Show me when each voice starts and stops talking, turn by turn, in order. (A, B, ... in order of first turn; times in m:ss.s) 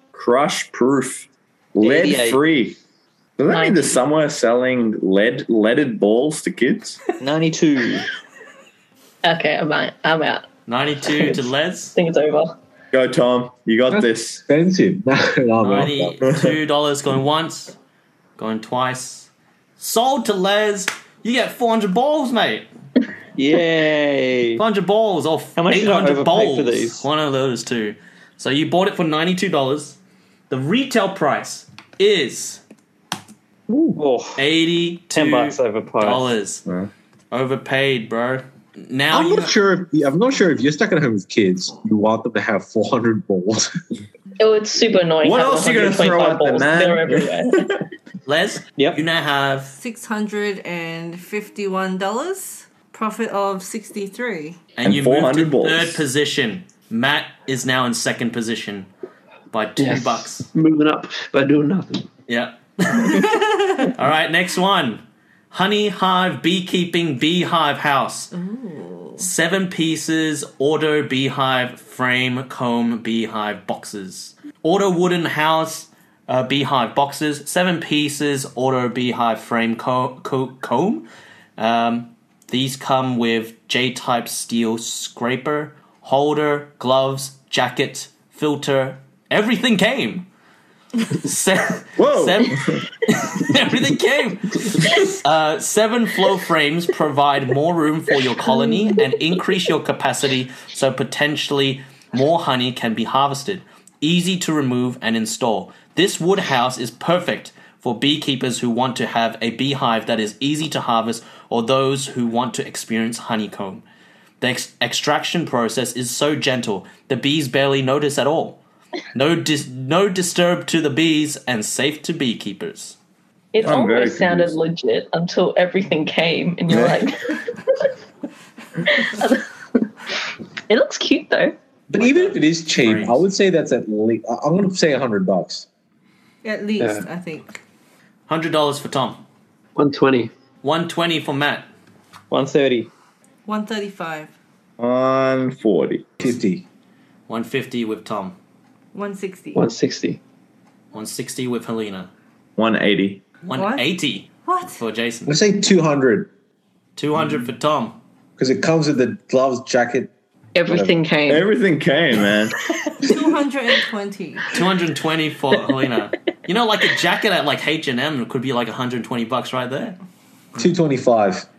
0:00.1-0:02.8 A
0:01.8-0:02.4 B
0:03.4-0:07.0 A
0:03.5-0:04.0 C
0:07.2-0:08.1 B
0:09.2-0:10.5 C
0:10.7-0:12.0 D
0:11.1-0:11.4 C
0:12.0-0:12.6 C
0:12.9-0:14.4 A
0:13.9-0:16.2 E
0:15.6-0:17.8 D
0:16.3-0:16.5 A
0:18.4-0:22.7 D
0:23.4-0:24.6 B
0:24.6-0:30.0 D
0:25.6-0:27.0 B
0:30.5-0:32.6 D
0:33.7-0:34.0 A
0:34.0-0:34.4 B
0:34.4-0:36.6 D
0:35.1-0:36.3 B
0:37.3-0:39.5 D
0:39.1-0:43.7 E
0:44.4-0:47.5 C
0:45.2-0:47.8 A
0:48.3-0:49.7 D
0:48.8-0:49.0 B
0:49.8-0:54.6 F
0:54.8-0:58.9 D
0:54.8-0:56.0 A
0:59.5-1:00.5 D
0:59.8-1:02.1 G
1:02.3-1:08.3 D
1:03.2-1:03.9 F
1:08.3-1:09.3 F
1:09.2-1:21.0 D
1:21.6-1:30.3 D
1:31.1-1:53.8 D
1:32.0-1:32.8 A
1:54.4-1:58.6 D
1:59.1-2:03.0 D
2:03.5-2:07.7 C
2:03.6-2:04.6 A
2:08.8-2:09.4 C
2:10.7-2:11.6 C
2:11.9-2:15.7 E
2:12.0-2:13.2 D
2:16.4-2:17.6 F
2:16.8-2:17.0 G
2:18.3-2:19.2 D
2:19.8-2:20.3 G
2:20.6-2:21.7 D
2:22.3-2:22.9 B
2:23.5-2:24.3 F
2:24.8-2:26.1 A
2:26.2-2:26.6 E
2:27.3-2:28.4 D
2:28.9-2:29.7 F
2:29.6-2:30.2 G
2:30.9-2:32.1 D
2:32.6-2:33.2 A
2:33.4-2:35.4 D
2:33.6-2:33.9 F
2:34.4-2:34.8 F
2:35.3-2:36.3 E
2:37.0-2:38.0 D
2:38.4-2:40.1 E
2:40.6-2:41.5 C
2:40.7-2:41.0 E
2:41.3-2:42.6 A
2:43.0-2:44.6 F
2:44.5-2:50.0 D
2:50.6-2:51.5 E